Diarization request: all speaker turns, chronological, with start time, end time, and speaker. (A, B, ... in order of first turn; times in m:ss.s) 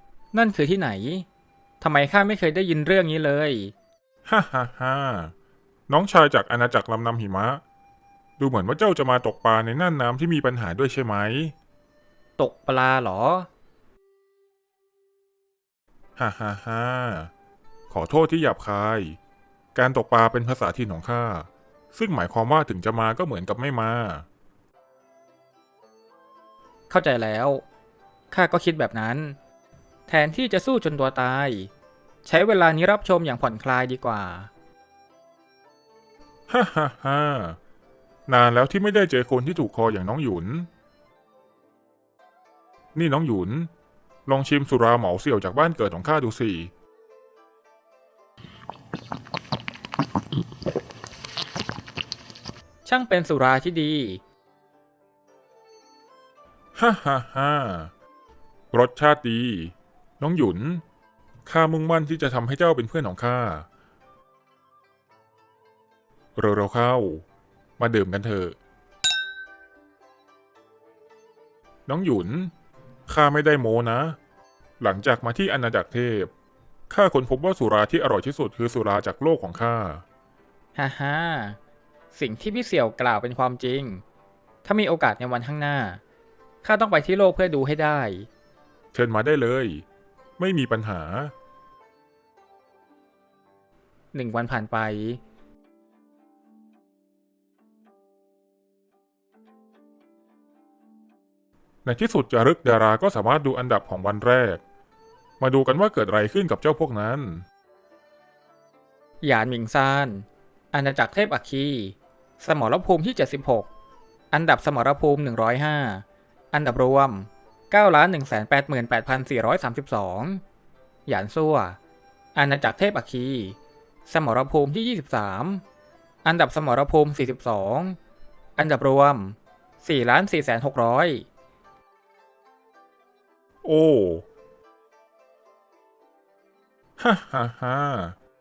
0:00.3-0:01.3 A
0:01.8-0:03.7 A
0:04.3-0:05.3 B
0:05.9-0:07.6 B
0:08.4-0:11.5 B
0:12.4-0:13.5 A
0:16.2-0:17.3 B
0:17.9-0:19.2 B
0:19.7-0:24.3 B
0:26.9-0:27.6 A
0:28.3-0:29.4 A
0:30.1-0:31.7 A
0:32.2-0:34.5 A
0:36.5-0:37.6 B
0:38.3-0:40.7 B
0:43.0-0:43.7 B
0:44.3-0:46.7 B
0:52.8-0:54.2 A
0:56.8-0:57.9 B
0:58.7-1:00.8 B
1:01.4-1:03.7 B
1:06.4-1:07.2 B
1:07.8-1:08.6 B
1:11.9-1:12.5 B
1:13.1-1:14.2 B
1:14.8-1:16.3 B
1:16.9-1:20.0 B
1:20.8-1:21.6 A
1:22.1-1:24.0 A
1:24.6-1:26.0 A
1:26.6-1:28.3 A
1:28.9-1:29.8 B
1:30.4-1:31.3 B
1:34.1-1:35.2 A
1:41.8-1:44.6 B
1:45.4-1:47.4 B
1:49.2-1:53.7 A
1:54.3-2:00.4 A
2:01.0-2:01.8 A
2:02.4-2:05.6 A
2:06.2-2:08.0 A
2:08.6-2:11.2 A
2:13.6-2:14.2 B
2:17.0-2:18.2 B